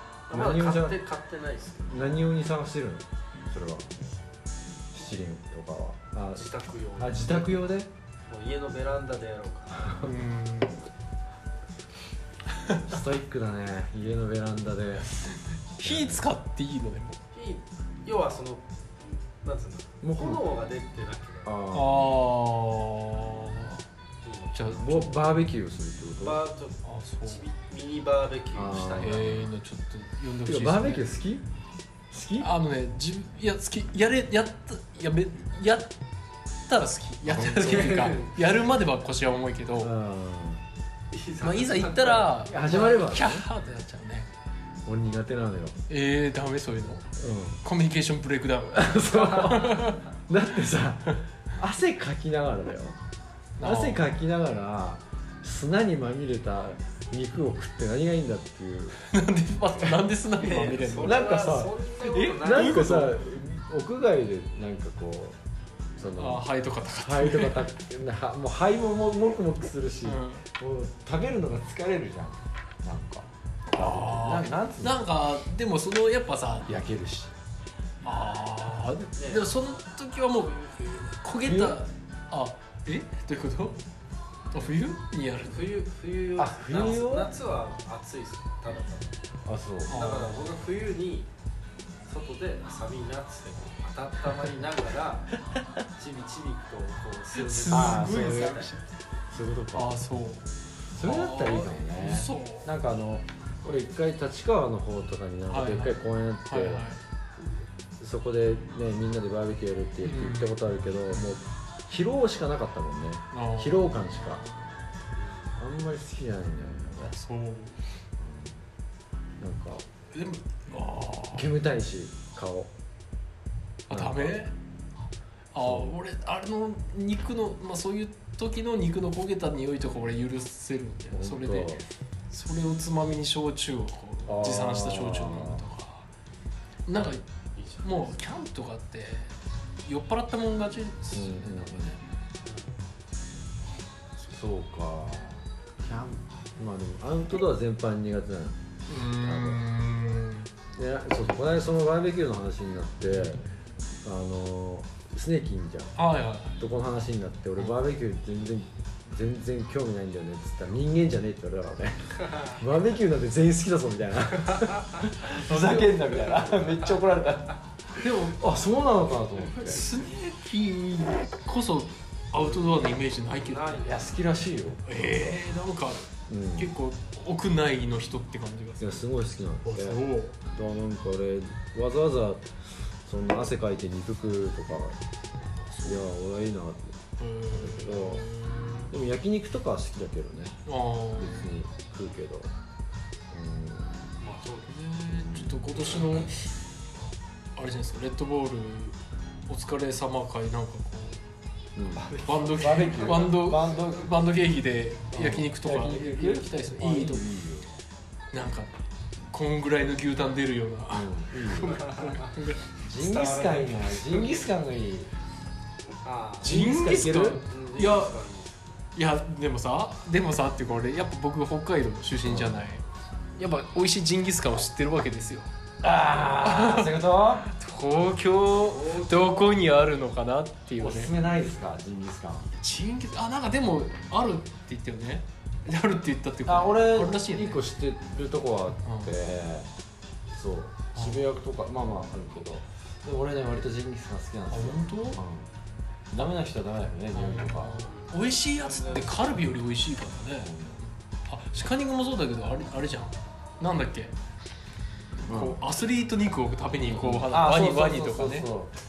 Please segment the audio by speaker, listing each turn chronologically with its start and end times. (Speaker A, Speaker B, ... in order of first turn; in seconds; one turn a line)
Speaker A: 0.3-2.0
Speaker B: 0.3-1.0
Speaker B: 1.9-3.9
Speaker B: 4.9-7.9
Speaker A: 6.3-7.6
Speaker A: 8.3-10.1
Speaker B: 9.8-10.1
Speaker C: 10.0-10.8
Speaker B: 12.8-15.1
Speaker C: 15.7-17.2
Speaker B: 15.8-16.3
Speaker A: 17.3-18.7
Speaker A: 19.4-21.6
Speaker B: 20.0-20.4
Speaker B: 21.4-22.2
Speaker C: 21.7-23.8
Speaker A: 24.2-24.9
Speaker C: 24.5-25.4
Speaker B: 24.7-26.4
Speaker A: 26.2-29.5
Speaker C: 26.8-27.4
Speaker B: 28.5-29.4
Speaker C: 29.0-31.1
Speaker B: 30.4-31.4
Speaker B: 32.1-32.5
Speaker C: 32.4-35.9
Speaker C: 36.7-39.9
Speaker B: 37.2-38.1
Speaker A: 37.4-38.3
Speaker B: 39.8-40.6
Speaker A: 41.1-42.7
Speaker C: 41.4-44.3
Speaker B: 42.4-43.5
Speaker B: 44.8-45.8
Speaker C: 45.9-47.1
Speaker B: 47.2-47.6
Speaker C: 47.6-50.0
Speaker B: 48.7-53.0
Speaker C: 53.6-54.1
Speaker B: 53.6-59.0
Speaker C: 59.0-63.2
Speaker A: 60.4-63.0
Speaker B: 61.0-65.4
Speaker B: 66.0-66.5
Speaker C: 66.1-67.7
Speaker B: 67.0-75.0
Speaker C: 70.0-70.5
Speaker C: 73.7-76.8
Speaker B: 76.7-77.3
Speaker C: 78.0-83.8
Speaker A: 79.2-79.6
Speaker B: 81.4-81.8
Speaker C: 84.5-85.7
Speaker A: 85.4-89.2
Speaker B: 86.4-87.3
Speaker B: 89.4-90.0
Speaker C: 89.9-90.5
Speaker A: 89.9-91.3
Speaker A: 92.0-98.7
Speaker C: 97.4-98.8
Speaker B: 97.7-98.7
Speaker B: 99.3-99.9
Speaker C: 99.7-102.7
Speaker B: 100.9-106.8
Speaker C: 105.5-107.0
Speaker B: 108.0-114.4
Speaker C: 110.0-111.3
Speaker C: 113.3-114.9
Speaker A: 115.2-115.5
Speaker B: 115.6-117.1
Speaker C: 117.0-117.8
Speaker B: 118.2-118.6
Speaker B: 119.4-119.8
Speaker C: 120.1-121.5
Speaker B: 121.3-122.7
Speaker C: 123.9-124.5
Speaker B: 123.9-124.4
Speaker C: 125.5-136.1
Speaker B: 125.6-126.0
Speaker B: 131.1-131.8
Speaker B: 134.2-135.6
Speaker C: 136.9-137.2
Speaker A: 137.5-138.2
Speaker C: 137.8-142.0
Speaker B: 141.1-142.0
Speaker A: 142.4-142.8
Speaker B: 144.3-149.6
Speaker C: 148.9-150.5
Speaker B: 150.7-153.4
Speaker C: 153.1-153.5
Speaker B: 154.0-155.9
Speaker C: 155.9-156.6
Speaker B: 156.6-169.9
Speaker C: 165.3-166.4
Speaker C: 168.0-168.3
Speaker C: 169.6-173.9
Speaker A: 172.4-174.2
Speaker B: 173.8-175.4
Speaker C: 174.8-176.0
Speaker B: 176.3-176.7
Speaker C: 176.6-179.1
Speaker B: 178.8-182.5
Speaker C: 179.6-180.3
Speaker B: 183.1-185.0
Speaker C: 185.7-186.1
Speaker B: 185.8-188.3
Speaker C: 187.2-188.9
Speaker B: 188.9-190.6
Speaker C: 190.7-191.5
Speaker B: 191.1-192.5
Speaker B: 193.3-194.1
Speaker A: 194.2-194.8
Speaker C: 194.6-196.5
Speaker B: 195.1-196.1
Speaker C: 197.6-201.2
Speaker B: 201.8-204.1
Speaker A: 201.9-203.4
Speaker C: 202.2-207.3
Speaker B: 205.1-207.7
Speaker C: 208.3-208.7
Speaker C: 209.3-212.7
Speaker B: 210.9-211.8
Speaker A: 211.6-212.4
Speaker B: 212.8-215.1
Speaker A: 212.9-214.4
Speaker A: 216.0-216.6
Speaker C: 216.4-218.2
Speaker B: 216.4-217.4
Speaker A: 217.3-218.7
Speaker C: 218.9-222.8
Speaker B: 222.2-222.7
Speaker C: 223.3-225.5
Speaker B: 225.8-227.5
Speaker C: 226.2-231.1
Speaker A: 228.5-229.7
Speaker B: 230.8-232.5
Speaker C: 232.6-237.6
Speaker B: 236.4-239.7
Speaker C: 238.8-239.1
Speaker B: 240.3-245.5
Speaker C: 240.9-241.3
Speaker C: 244.5-245.2
Speaker B: 246.1-247.8
Speaker C: 247.1-254.1
Speaker A: 247.8-249.4
Speaker B: 250.4-250.8
Speaker C: 255.2-258.5
Speaker B: 255.3-255.6
Speaker B: 256.9-258.7